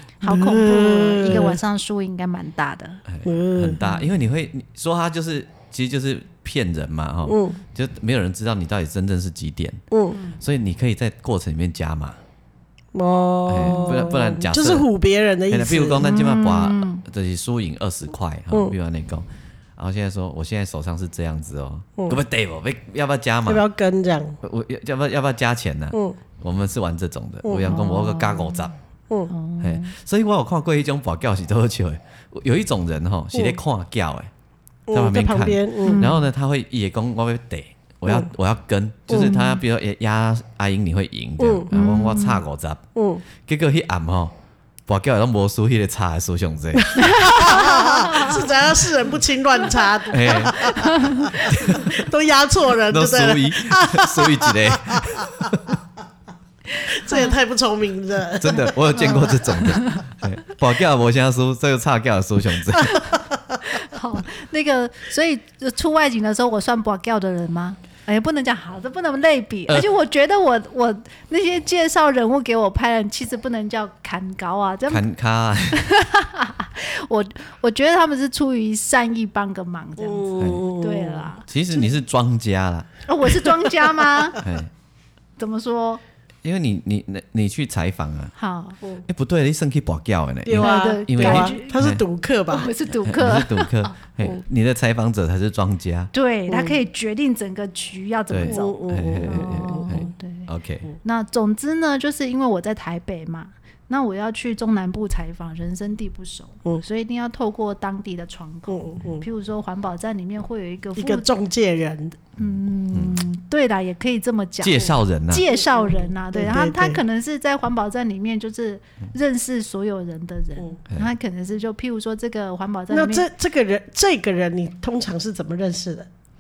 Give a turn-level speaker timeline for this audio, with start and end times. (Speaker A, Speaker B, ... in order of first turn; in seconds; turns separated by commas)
Speaker A: 0.2-3.0, Speaker B: 0.2-1.6, Speaker C: 3.1-9.8, Speaker B: 3.2-3.9, Speaker B: 7.3-7.6, Speaker B: 9.9-10.2, Speaker C: 10.3-12.2, Speaker B: 12.9-16.1, Speaker C: 13.5-14.9, Speaker C: 15.5-23.6, Speaker A: 16.0-17.0, Speaker B: 23.5-24.4, Speaker C: 24.4-28.7, Speaker B: 27.4-27.8, Speaker A: 27.7-28.7, Speaker A: 29.3-29.9, Speaker C: 29.6-34.3, Speaker B: 34.9-36.1, Speaker C: 34.9-42.8, Speaker A: 35.8-36.3, Speaker B: 39.1-39.4, Speaker A: 39.1-39.6, Speaker B: 41.4-41.7, Speaker A: 41.7-42.4, Speaker B: 43.0-43.2, Speaker C: 43.4-44.3, Speaker C: 44.9-47.6, Speaker B: 46.8-55.5, Speaker A: 47.0-48.3, Speaker C: 50.1-52.1, Speaker A: 50.6-51.4, Speaker C: 52.9-55.8, Speaker B: 56.8-59.3, Speaker A: 57.0-57.4, Speaker C: 58.4-63.1, Speaker A: 58.9-60.1, Speaker A: 63.6-75.1, Speaker C: 74.9-75.9, Speaker A: 75.7-81.5, Speaker B: 80.0-81.3, Speaker C: 80.4-80.7, Speaker C: 81.5-82.9, Speaker A: 83.1-84.4, Speaker C: 84.4-84.7, Speaker A: 85.4-86.0, Speaker C: 86.4-88.3, Speaker A: 88.4-88.8, Speaker C: 89.1-92.0, Speaker B: 90.5-92.7, Speaker A: 90.6-91.9, Speaker A: 92.5-93.9, Speaker C: 92.9-96.1, Speaker A: 96.1-100.5, Speaker B: 96.5-96.8, Speaker C: 98.3-100.9, Speaker B: 98.5-100.1, Speaker A: 101.0-111.3, Speaker B: 108.7-109.3, Speaker B: 111.0-112.2, Speaker A: 112.4-123.3, Speaker C: 112.4-113.2, Speaker C: 114.6-115.5, Speaker B: 115.6-117.0, Speaker B: 122.9-126.1